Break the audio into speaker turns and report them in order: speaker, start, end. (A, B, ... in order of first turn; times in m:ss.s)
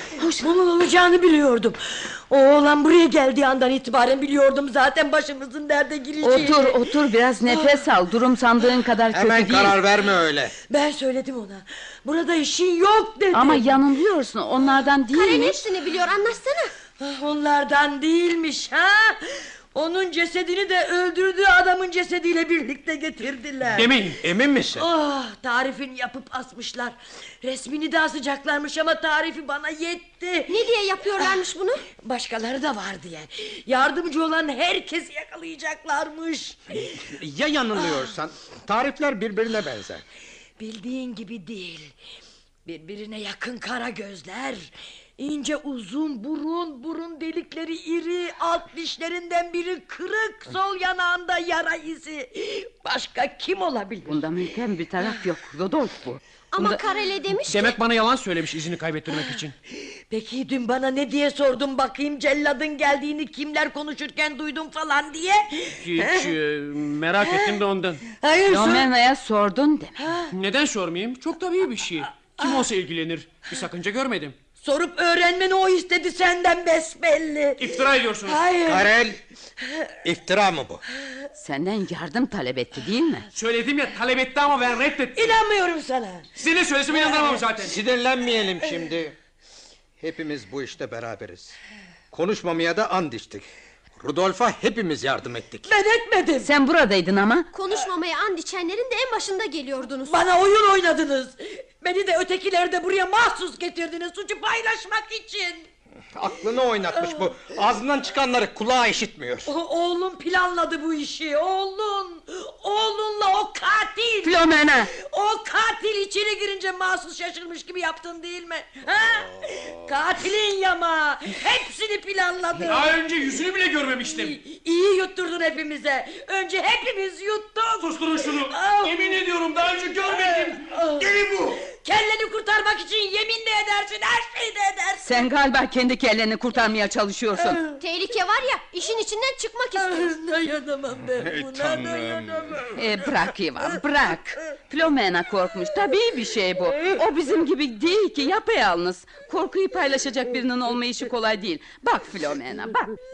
0:00.1-0:00.4 A
0:00.4-0:06.9 B
0:06.2-0:09.8 A
0:07.5-0:07.8 B
0:09.1-0:10.5 C
0:10.7-0:13.8 B
0:13.3-0:15.6 A
0:15.1-0:16.7 D
0:17.0-0:23.9 B
0:23.7-0:24.2 E
0:24.2-0:24.9 C
0:24.7-0:30.6 B
0:30.5-0:31.8 D
0:31.9-0:37.1 B
0:37.0-0:40.0 C
0:37.8-0:38.1 B
0:40.6-0:42.0 B
0:42.6-0:54.2 B
0:54.1-0:56.8 A
0:56.5-0:57.8 D
0:57.4-0:59.5 E
1:00.1-1:06.3 B
1:05.8-1:08.0 E
1:07.2-1:08.9 B
1:08.5-1:10.0 A
1:10.0-1:10.3 B
1:10.3-1:14.4 E
1:12.4-1:12.7 B
1:14.6-1:18.9 B
1:17.6-1:18.4 E
1:18.6-1:19.2 C
1:20.0-1:20.8 C
1:21.4-1:23.2 A
1:23.3-1:25.4 E
1:25.1-1:26.3 B
1:26.4-1:27.8 E
1:27.6-1:29.1 C
1:30.0-1:31.6 C
1:32.1-1:35.7 C
1:35.6-1:36.5 B
1:36.4-1:37.5 A
1:37.5-1:40.2 D
1:40.0-1:45.7 B
1:46.1-1:49.5 C
1:49.4-1:54.4 B
1:54.2-1:54.9 A
1:54.9-2:02.9 B
2:02.6-2:04.4 E
2:04.0-2:09.2 B
2:07.8-2:10.7 E
2:10.0-2:15.3 B
2:11.0-2:11.6 C
2:15.0-2:17.6 A
2:17.8-2:20.1 D
2:19.8-2:22.7 B
2:21.0-2:22.6 C
2:22.7-2:32.9 A